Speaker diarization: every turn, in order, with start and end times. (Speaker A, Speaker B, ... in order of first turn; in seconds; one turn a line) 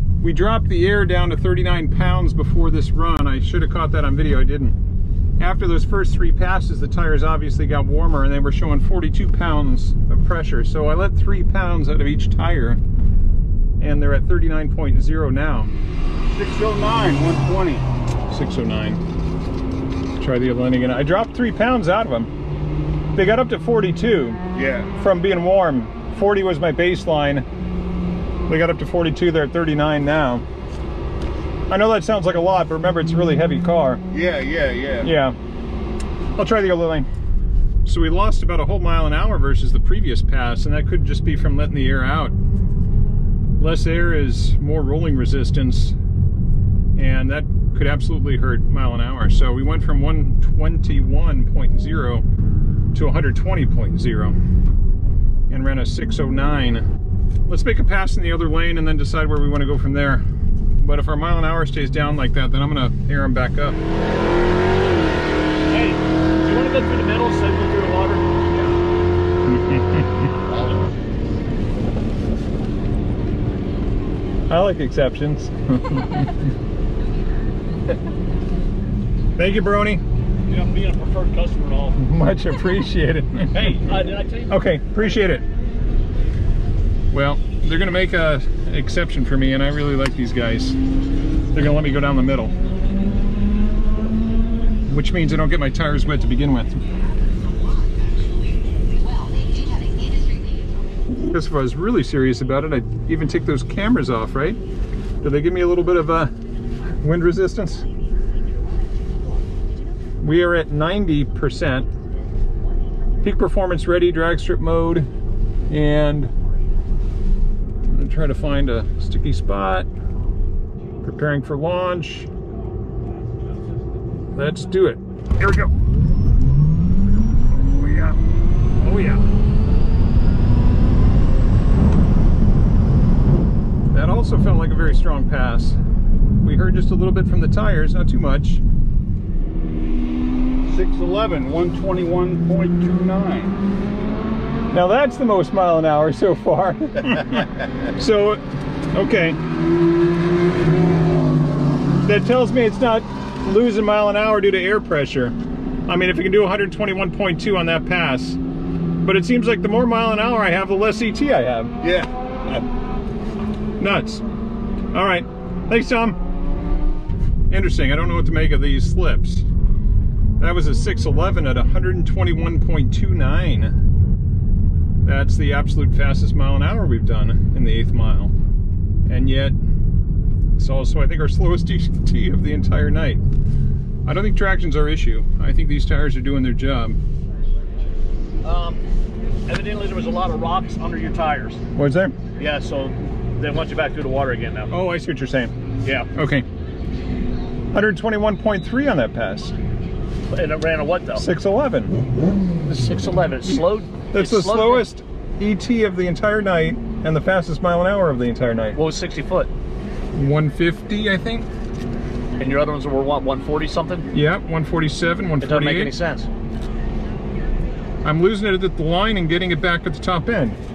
Speaker A: 0.2-4.8
Speaker A: 5.4-12.8
Speaker A: 13.8-15.7
Speaker B: 16.3-17.9
Speaker A: 18.3-19.0
Speaker A: 20.2-22.3
Speaker A: 23.1-24.4
Speaker B: 24.5-24.9
Speaker A: 25.0-27.4
Speaker A: 28.5-30.4
Speaker A: 31.7-34.0
Speaker B: 34.1-35.1
Speaker A: 35.0-35.3
Speaker A: 36.4-37.1
Speaker A: 37.8-42.4
Speaker A: 43.6-46.0
Speaker A: 46.9-52.2
Speaker A: 52.9-54.4
Speaker A: 55.5-56.9
Speaker A: 57.5-60.2
Speaker A: 60.8-63.8
Speaker C: 65.7-68.8
Speaker A: 69.5-70.2
Speaker C: 70.5-70.9
Speaker A: 74.5-76.3
Speaker A: 79.4-80.0
Speaker C: 80.5-82.0
Speaker A: 82.0-83.8
Speaker C: 83.5-84.6
Speaker A: 84.5-85.4
Speaker A: 87.1-90.8
Speaker A: 91.5-92.5
Speaker A: 94.9-96.8
Speaker A: 101.3-104.6
Speaker A: 105.2-106.3
Speaker A: 107.0-107.8
Speaker A: 110.2-111.9
Speaker A: 113.2-115.1
Speaker A: 115.7-116.3
Speaker A: 117.8-119.9
Speaker A: 121.0-122.3
Speaker A: 124.3-125.7
Speaker A: 127.6-128.2
Speaker A: 128.8-129.2
Speaker A: 133.9-135.8
Speaker A: 136.4-138.6
Speaker B: 140.6-143.6
Speaker A: 144.7-148.4
Speaker A: 148.9-149.4
Speaker A: 152.0-155.3
Speaker A: 155.9-158.4
Speaker A: 159.0-161.7
Speaker B: 161.8-162.7
Speaker A: 163.8-164.2
Speaker A: 164.9-166.2
Speaker A: 167.5-169.5
Speaker A: 170.4-173.7
Speaker A: 175.0-178.3
Speaker A: 179.1-179.6
Speaker A: 180.5-183.2
Speaker A: 184.0-187.0
Speaker C: 188.4-188.8
Speaker C: 189.5-191.6
Speaker A: 191.7-192.2
Speaker C: 192.4-194.7
Speaker A: 194.7-195.5
Speaker A: 196.1-196.4
Speaker A: 197.7-199.6
Speaker C: 200.3-201.2
Speaker A: 201.2-202.0
Speaker C: 202.7-204.8
Speaker A: 204.1-208.8
Speaker C: 208.8-209.5
Speaker A: 210.1-211.5
Speaker C: 212.4-214.1
Speaker A: 214.1-215.9
Speaker C: 215.4-216.3
Speaker A: 218.0-220.6